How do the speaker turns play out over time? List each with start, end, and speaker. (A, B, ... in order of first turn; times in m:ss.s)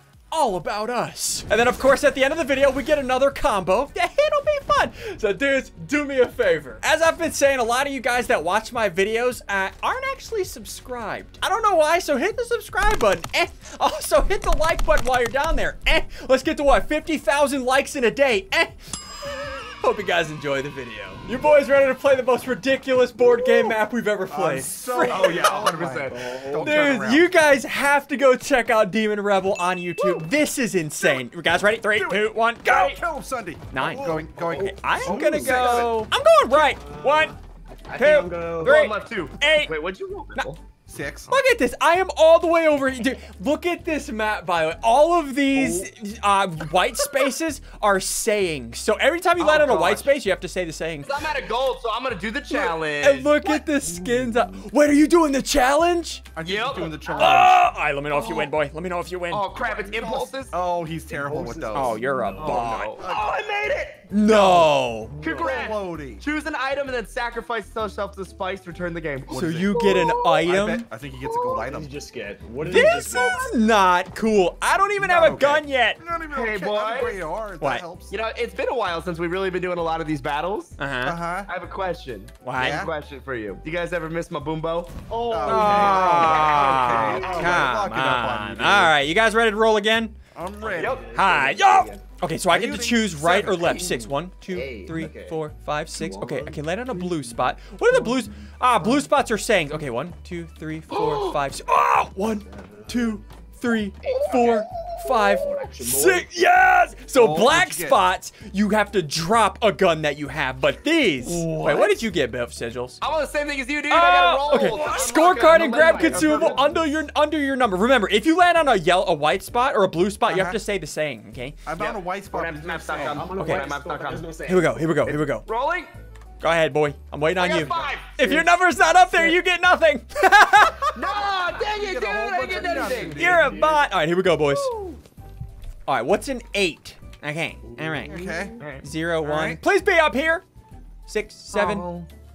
0:00.3-0:19.0 A
0:19.7-0:25.6 A
0:23.3-0:23.8 B
0:24.3-0:27.3 C
0:25.1-0:26.4 B
0:26.1-0:26.9 D
0:26.6-0:33.0 A
0:30.0-0:30.2 B
0:31.9-0:36.0 C
0:32.7-0:33.0 B
0:33.7-0:37.4 A
0:33.8-0:35.9 D
0:36.5-0:38.9 D
0:38.0-0:39.8 A
0:38.6-0:40.6 B
0:40.9-0:41.4 C
0:41.3-0:51.2 A
0:45.5-0:45.9 D
0:49.4-0:50.2 B
0:51.0-0:53.4 B
0:52.5-0:56.2 A
0:53.8-0:54.7 D
0:56.4-0:57.6 C
0:56.4-0:58.5 B
0:57.2-0:59.5 A
0:59.3-1:00.5 B
0:59.7-1:02.0 C
1:01.1-1:02.7 D
1:01.7-1:03.0 A
1:02.4-1:04.4 B
1:03.0-1:03.3 C
1:04.1-1:05.2 A
1:04.3-1:04.7 C
1:05.2-1:05.7 D
1:05.2-1:06.2 C
1:05.2-1:10.4 B
1:09.3-1:10.9 A
1:10.4-1:11.9 C
1:11.2-1:11.7 B
1:11.7-1:13.5 D
1:12.6-1:16.0 A
1:15.0-1:18.2 C
1:16.3-1:17.2 B
1:18.1-1:20.8 B
1:20.8-1:21.2 A
1:21.0-1:21.5 C
1:21.5-1:25.0 B
1:22.4-1:22.8 A
1:22.6-1:22.9 C
1:25.1-1:27.7 D
1:25.3-1:29.0 C
1:25.4-1:30.1 A
1:26.3-1:27.3 B
1:30.3-1:31.0 C
1:30.6-1:32.0 D
1:30.8-1:31.1 B
1:31.1-1:53.0 A
1:32.5-1:33.9 C
1:33.9-1:39.1 D
1:40.9-1:41.4 B
1:42.4-1:43.2 D
1:44.0-1:44.9 B
1:44.3-1:44.6 D
1:45.1-1:46.3 D
1:47.2-1:48.0 C
1:51.4-1:51.8 D
1:51.5-1:51.9 C
1:53.0-1:56.8 B
1:53.9-2:01.6 A
1:54.8-1:55.1 C
1:55.2-1:56.9 D
2:00.3-2:00.6 C
2:01.7-2:03.3 C
2:01.8-2:04.4 B
2:03.0-2:04.8 D
2:03.4-2:03.6 A
2:04.4-2:05.5 A
2:05.0-2:05.9 B
2:06.4-2:10.9 A
2:07.4-2:08.5 B
2:09.1-2:09.4 D
2:10.9-2:13.5 B
2:11.5-2:13.8 C
2:13.2-2:14.7 A
2:14.5-2:15.0 B
2:15.9-2:18.2 A
2:17.7-2:18.5 D
2:18.1-2:18.6 C
2:18.1-2:18.9 B
2:18.8-2:20.4 A
2:19.2-2:19.6 C
2:21.1-2:21.9 A
2:21.5-2:22.1 B